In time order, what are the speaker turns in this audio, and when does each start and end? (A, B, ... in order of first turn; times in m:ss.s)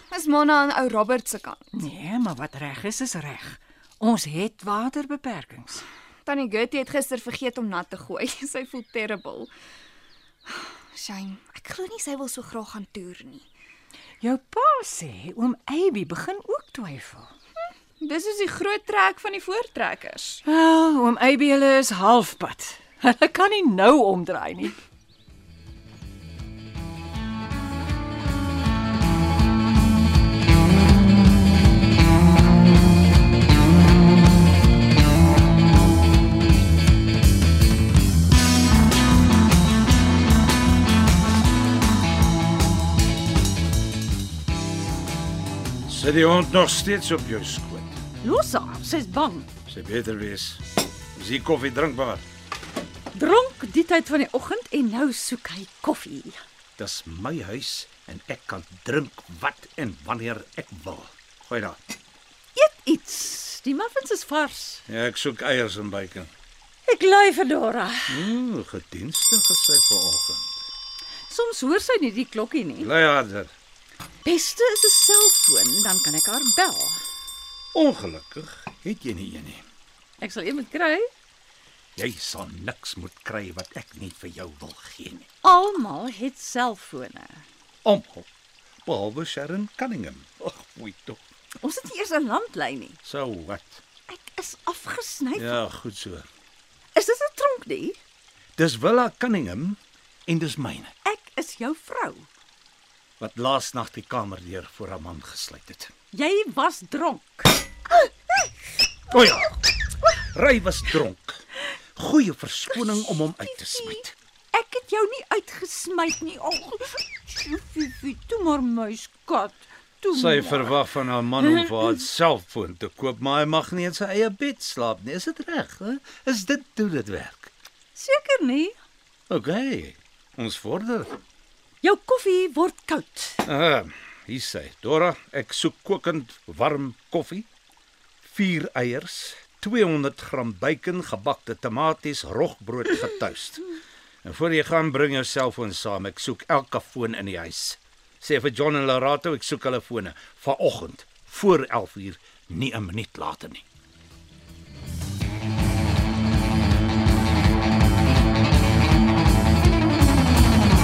0:00.1-0:01.6 A
0:01.7-0:05.8 B
0:06.2-0:09.5 A
0:10.5-0:13.5 A
0:14.2-0:17.3 B
0:18.0-0:20.4 A
0:20.4-0:24.8 B
0:45.9-0:48.0 C
0:48.2-0:49.5 D
0:49.7-0:50.6 C
0:51.2-0:52.2 C
0:53.1-0:56.3 D
0:56.8-1:01.8 C
1:02.6-1:04.8 D
1:04.9-1:06.3 C
1:06.9-1:08.2 D
1:08.1-1:10.5 C
1:11.3-1:12.9 D
1:12.8-1:13.5 C
1:14.2-1:17.0 D
1:17.7-1:19.6 C
1:20.2-1:21.1 D
1:22.0-1:25.3 C
1:25.4-1:27.4 D
1:27.8-1:28.3 C
1:28.8-1:31.2 C
1:31.6-1:32.9 D
1:33.0-1:33.8 C
1:34.1-1:35.5 D
1:35.3-1:36.3 C
1:37.0-1:38.0 D
1:38.6-1:40.9 C
1:41.1-1:42.2 D
1:43.2-1:45.9 C
1:46.1-1:47.5 D
1:49.1-1:51.4 C
1:52.0-1:54.1 C
1:54.5-2:00.7 D
2:00.1-2:07.5 C
2:08.0-2:08.7 D
2:09.3-2:11.2 C
2:11.8-2:13.4 D
2:13.4-2:17.5 C
2:18.2-2:23.7 C
2:24.2-2:33.6 C